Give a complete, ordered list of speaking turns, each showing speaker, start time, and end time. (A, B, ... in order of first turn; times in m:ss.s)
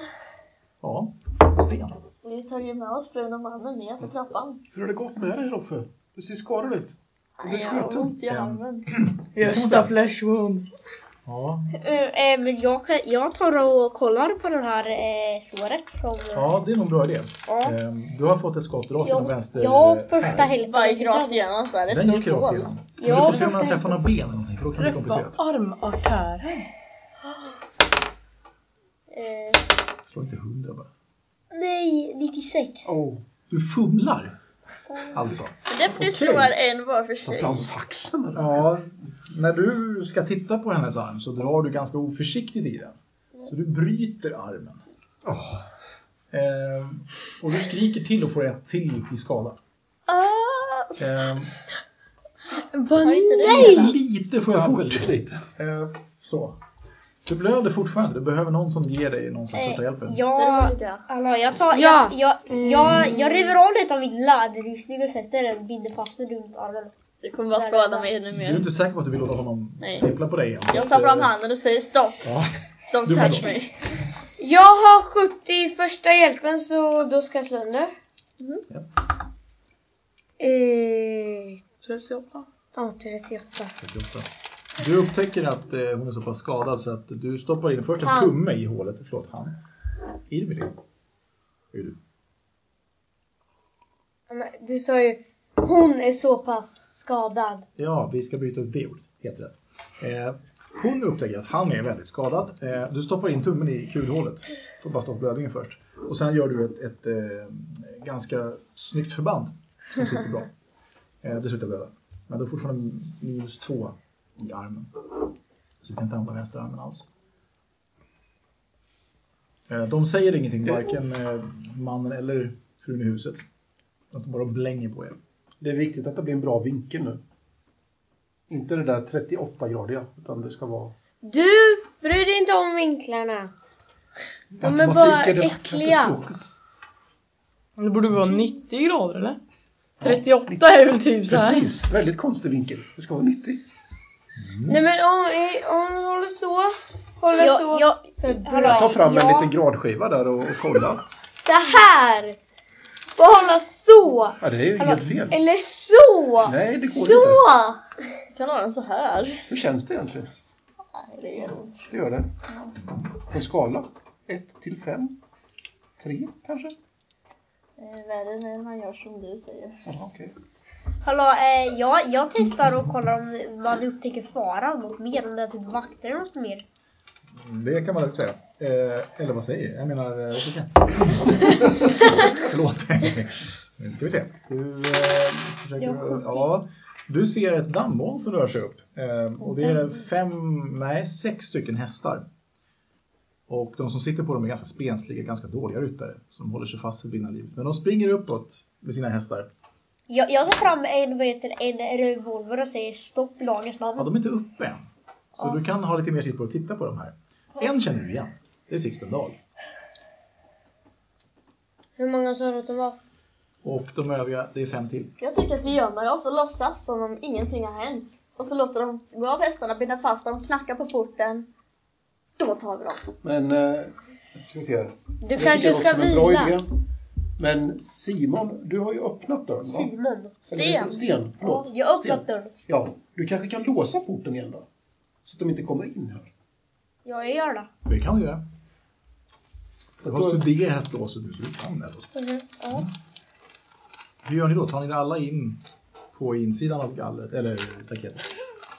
0:00.8-0:02.0 A
0:02.2-0:04.6 B
0:04.7-0:08.2 C
0:07.4-0:08.9 B
0:08.3-0:09.9 A
0:09.4-0:10.7 D
0:11.3-0:11.7 A
0:11.8-0:16.5 E
0:16.3-0:20.6 A
0:17.5-0:17.7 E
0:19.0-0:21.4 E
0:20.6-0:22.7 B
0:21.9-0:25.4 A
0:23.0-0:24.0 E
0:24.8-0:26.7 D
0:29.1-0:29.6 E
0:30.1-0:30.9 A
0:31.5-0:33.0 E
0:32.9-0:33.2 C
0:33.5-0:34.4 A
0:35.1-0:36.5 A
0:35.7-0:37.7 B
0:37.2-0:38.6 C
0:38.4-0:43.0 A
0:43.5-0:44.8 A
0:45.2-0:45.7 C
0:46.3-0:49.6 A
0:50.1-0:51.2 B
0:51.0-0:51.5 A
0:52.6-0:54.0 F
0:53.0-0:54.0 B
0:53.5-0:56.6 A
0:54.5-0:55.4 C
0:57.3-1:00.2 A
0:59.5-1:06.9 E
1:00.4-1:01.0 B
1:01.7-1:03.2 F
1:07.2-1:08.7 B
1:07.5-1:08.1 E
1:08.3-1:11.3 A
1:09.8-1:10.1 B
1:10.7-1:12.2 B
1:12.2-1:13.5 A
1:12.9-1:13.9 B
1:14.4-1:17.9 F
1:20.4-1:21.7 F
1:21.8-1:22.5 D
1:22.7-1:23.7 F
1:23.8-1:29.6 A
1:30.3-1:30.8 A
1:31.7-1:32.0 A
1:34.3-1:37.6 F
1:37.8-1:50.5 A
1:51.2-1:54.9 A
1:55.8-1:57.1 A
1:59.7-2:03.4 A
2:04.1-2:05.2 A
2:05.6-2:07.2 C
2:08.5-2:11.0 C
2:11.2-2:13.5 F
2:14.5-2:16.5 C
2:14.6-2:16.2 F
2:17.8-2:19.4 D
2:20.0-2:20.7 C
2:20.0-2:21.7 D
2:21.3-2:23.6 C
2:24.4-2:24.8 A
2:24.7-2:29.0 F
2:27.4-2:29.5 E
2:28.6-2:31.0 C
2:31.4-2:32.4 E
2:33.2-2:34.4 F
2:34.4-2:35.4 C
2:35.3-2:37.8 F
2:36.4-2:37.4 C
2:38.3-2:39.4 B
2:39.5-2:40.3 C
2:40.9-2:41.9 B
2:41.9-2:42.3 C
2:43.3-2:45.2 C
2:46.0-2:46.8 C
2:47.8-2:49.8 B
2:49.9-2:50.3 C
2:51.0-2:56.6 E
2:57.3-3:12.2 A
3:05.8-3:06.4 E
3:13.5-3:19.5 A
3:20.1-3:24.1 E
3:24.0-3:29.4 A
3:32.0-3:33.0 F
3:33.6-3:35.1 A
3:35.2-3:41.5 B
3:42.4-3:43.1 B
3:43.2-3:46.7 C
3:45.2-3:46.5 F
3:47.4-3:49.9 C
3:49.6-3:50.4 E
3:50.5-3:54.6 C
3:50.5-3:51.0 B
3:51.4-3:52.5 E
3:55.2-3:56.3 C
3:57.0-3:57.7 E
3:57.8-3:58.4 A
4:00.0-4:00.4 C
4:00.0-4:02.1 A
4:02.2-4:02.8 E
4:04.2-4:05.6 A
4:06.1-4:08.3 A